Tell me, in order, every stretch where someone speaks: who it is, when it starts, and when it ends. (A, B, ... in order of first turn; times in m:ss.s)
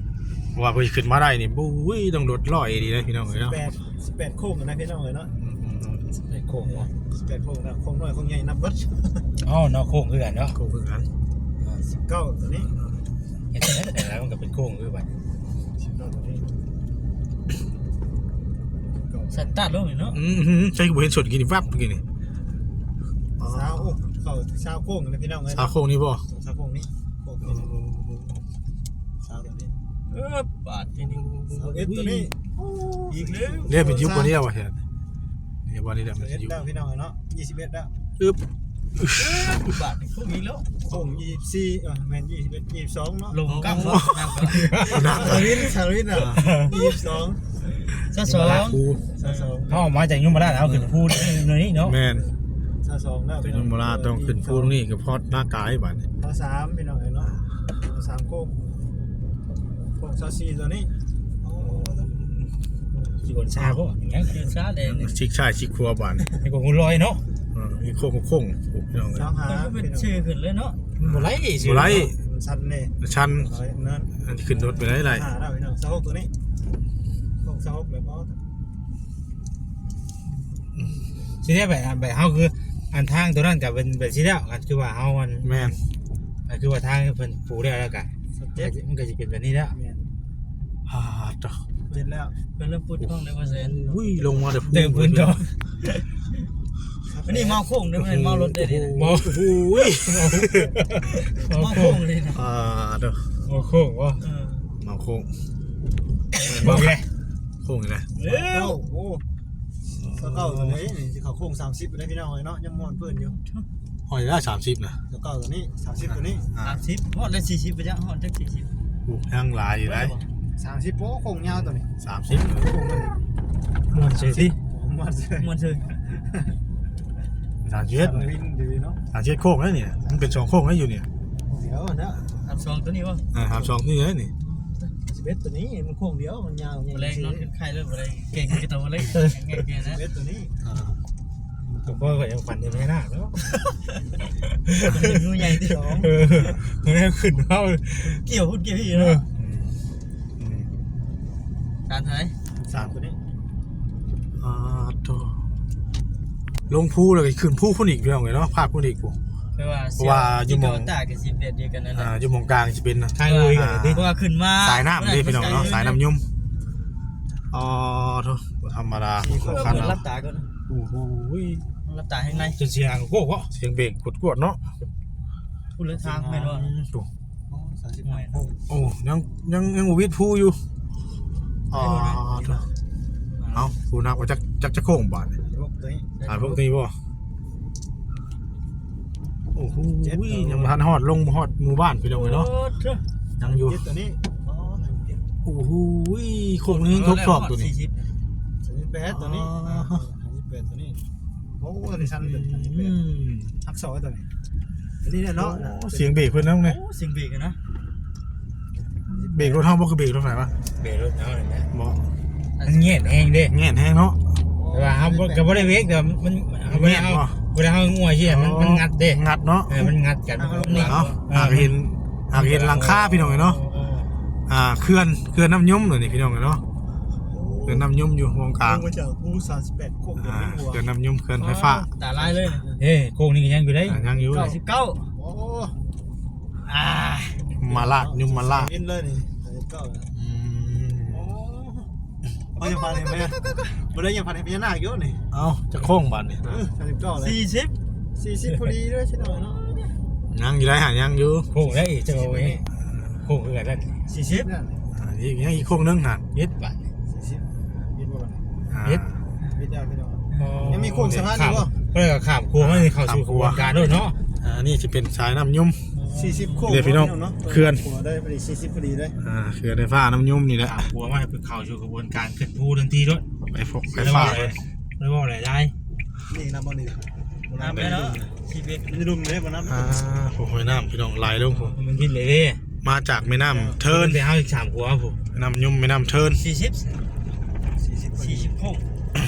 0:00.6-0:03.6 A
0:03.3-0:05.3 B
0:05.4-0:06.2 A
0:06.3-0:06.9 C
0:06.7-0:09.3 B
0:09.4-0:10.6 C
0:10.5-0:11.1 A
0:11.6-0:12.7 B
0:13.5-0:15.1 C
0:15.8-0:16.6 B
0:18.8-0:19.6 B
0:19.3-0:20.2 D
0:20.1-0:22.0 A
0:23.4-0:24.0 A
0:23.4-0:25.7 B
0:25.6-0:26.2 A
0:26.3-0:27.7 B
0:27.4-0:28.4 A
0:29.2-0:29.8 B
0:30.1-0:31.2 D
0:31.0-0:32.3 A
0:31.6-0:32.3 B
0:33.1-0:33.8 D
0:33.1-0:34.3 B
0:33.7-0:34.8 A
0:35.7-0:36.6 A
0:36.2-0:37.9 B
0:39.0-0:39.6 A
0:39.2-0:40.8 D
0:40.8-0:44.0 B
0:43.3-0:45.3 D
0:43.7-0:45.6 A
0:44.5-0:45.7 C
0:44.8-0:47.5 B
0:46.1-0:46.5 A
0:46.3-0:46.8 C
0:48.0-0:49.5 D
0:48.3-0:49.0 A
0:48.3-0:48.7 C
0:49.2-0:49.8 B
0:49.7-0:52.0 C
0:50.5-0:50.9 A
0:51.8-0:52.3 A
0:52.1-0:54.8 B
0:53.4-0:56.1 A
0:56.2-0:58.7 B
0:59.7-1:02.3 B
1:02.1-1:02.4 A
1:03.2-1:04.5 C
1:03.5-1:03.8 A
1:04.3-1:05.2 D
1:04.8-1:06.3 A
1:06.4-1:07.2 C
1:07.5-1:09.3 A
1:09.1-1:10.2 B
1:09.4-1:10.8 D
1:11.0-1:12.1 C
1:11.0-1:12.2 A
1:12.1-1:14.1 B
1:13.0-1:13.5 A
1:14.2-1:15.3 A
1:15.0-1:16.3 B
1:17.4-1:18.4 B
1:21.4-1:25.7 C
1:25.4-1:25.8 A
1:26.5-1:29.8 C
1:28.3-1:28.8 B
1:29.7-1:30.1 B
1:30.9-1:31.6 A
1:31.9-1:32.4 B
1:32.5-1:34.0 D
1:33.0-1:35.4 A
1:34.6-1:35.5 C
1:37.1-1:37.6 B
1:37.3-1:39.2 D
1:38.0-1:40.7 A
1:39.0-1:42.0 C
1:41.3-1:42.4 D
1:42.3-1:43.4 A
1:43.5-1:44.2 C
1:44.2-1:44.7 D
1:44.8-1:45.3 A
1:46.4-1:47.0 A
1:46.4-1:47.0 C
1:47.6-1:48.1 A
1:48.2-1:48.7 D
1:48.4-1:49.2 B
1:49.9-1:50.9 A
1:50.1-1:53.4 B
1:52.8-1:53.6 D
1:54.1-1:55.0 A
1:55.1-1:56.5 B
1:56.1-1:56.8 A
1:56.6-1:58.7 D
1:59.1-2:00.2 A
1:59.8-2:00.2 D
2:00.6-2:01.9 B
2:02.0-2:02.7 A
2:02.5-2:03.2 B
2:03.9-2:04.6 C
2:04.5-2:05.5 B
2:05.4-2:06.2 D
2:07.6-2:08.3 A
2:08.0-2:09.0 B
2:09.1-2:11.1 A
2:11.5-2:12.3 B
2:12.4-2:13.2 D
2:13.3-2:14.3 A
2:14.5-2:14.9 D
2:15.0-2:17.5 B
2:16.9-2:20.0 D
2:19.8-2:20.6 B
2:21.7-2:22.2 B
2:21.8-2:23.5 C
2:24.7-2:25.2 C
2:24.8-2:26.1 D
2:25.7-2:26.1 B
2:26.0-2:28.2 C
2:28.0-2:29.2 D
2:28.9-2:29.2 C
2:29.4-2:29.8 A
2:30.4-2:30.7 A
2:31.9-2:32.4 D
2:32.6-2:33.2 B
2:34.4-2:35.4 A
2:36.7-2:39.2 A
2:39.6-2:42.1 D
2:40.0-2:40.9 A
2:41.9-2:46.3 A
2:43.2-2:44.0 C
2:43.2-2:46.0 D
2:47.5-2:50.0 A
2:49.2-2:49.6 B
2:49.5-2:50.5 D
2:50.7-2:51.7 A
2:51.8-2:52.6 D
2:52.6-2:53.5 C
2:53.5-2:54.6 A
2:55.8-2:56.7 D
2:56.4-2:57.1 A
2:57.5-2:58.6 B
2:58.0-2:58.5 D
2:58.7-3:00.6 A
3:01.7-3:02.6 A
3:01.7-3:02.6 D
3:03.3-3:03.8 D
3:03.6-3:05.4 A
3:05.4-3:06.1 B
3:06.2-3:06.6 D
3:06.3-3:07.0 A
3:09.6-3:12.5 A
3:10.0-3:10.8 B
3:12.1-3:13.0 D
3:13.4-3:13.8 A
3:13.4-3:15.2 B
3:15.4-3:17.7 A
3:16.7-3:18.1 D
3:18.6-3:21.0 B
3:19.1-3:20.0 A
3:21.6-3:23.0 B
3:22.2-3:23.6 A
3:23.6-3:24.3 B
3:25.0-3:26.2 B
3:25.4-3:26.8 A
3:26.6-3:27.6 D
3:29.1-3:30.6 A
3:29.2-3:29.6 B
3:30.8-3:31.7 C
3:31.7-3:32.0 A
3:32.6-3:33.1 D
3:32.6-3:33.6 C
3:33.5-3:34.2 A
3:34.6-3:35.7 B
3:34.7-3:41.8 C
3:36.7-3:37.4 A
3:38.2-3:39.9 A
3:40.3-3:41.2 B
3:40.7-3:40.9 D
3:40.8-3:43.6 A
3:42.3-3:44.1 C
3:44.5-3:46.6 A
3:47.2-3:47.9 B
3:47.7-3:48.9 A
3:48.6-3:50.8 B
3:50.2-3:51.9 A
3:51.4-3:52.7 D
3:52.1-3:52.8 B
3:52.8-3:54.0 C
3:53.8-3:54.6 A
3:54.3-3:55.1 D
3:55.2-3:55.8 B
3:56.7-3:57.4 D
3:57.4-4:00.1 B
3:57.6-3:58.7 A
4:00.1-4:01.3 A
4:01.1-4:01.9 B
4:02.6-4:03.7 D
4:02.6-4:05.3 B
4:05.3-4:06.6 A
4:06.4-4:07.4 B
4:07.2-4:07.8 D
4:08.2-4:09.7 B
4:09.2-4:09.9 D
4:10.3-4:11.5 A
4:11.5-4:12.6 C
4:11.6-4:12.6 B
4:13.2-4:14.0 C
4:14.1-4:14.8 B
4:14.9-4:16.3 A
4:16.3-4:16.9 C
4:17.1-4:18.5 B
4:18.7-4:19.3 A
4:19.5-4:21.7 B
4:20.4-4:24.2 C
4:20.6-4:21.3 A
4:22.6-4:23.7 A
4:24.4-4:25.9 A
4:26.0-4:26.7 D
4:26.0-4:29.2 B
4:26.6-4:27.8 A
4:29.2-4:30.9 A
4:30.6-4:33.2 C
4:33.5-4:34.6 A
4:33.9-4:35.7 C
4:36.3-4:38.2 B
4:37.6-4:38.9 D
4:37.7-4:38.2 A
4:38.8-4:39.9 B
4:39.6-4:41.8 A
4:41.4-4:42.6 C
4:42.8-4:44.3 A
4:43.5-4:43.8 B
4:43.8-4:45.2 C
4:45.3-4:46.4 A
4:46.4-4:47.0 D
4:47.8-4:48.6 B
4:48.2-4:48.8 D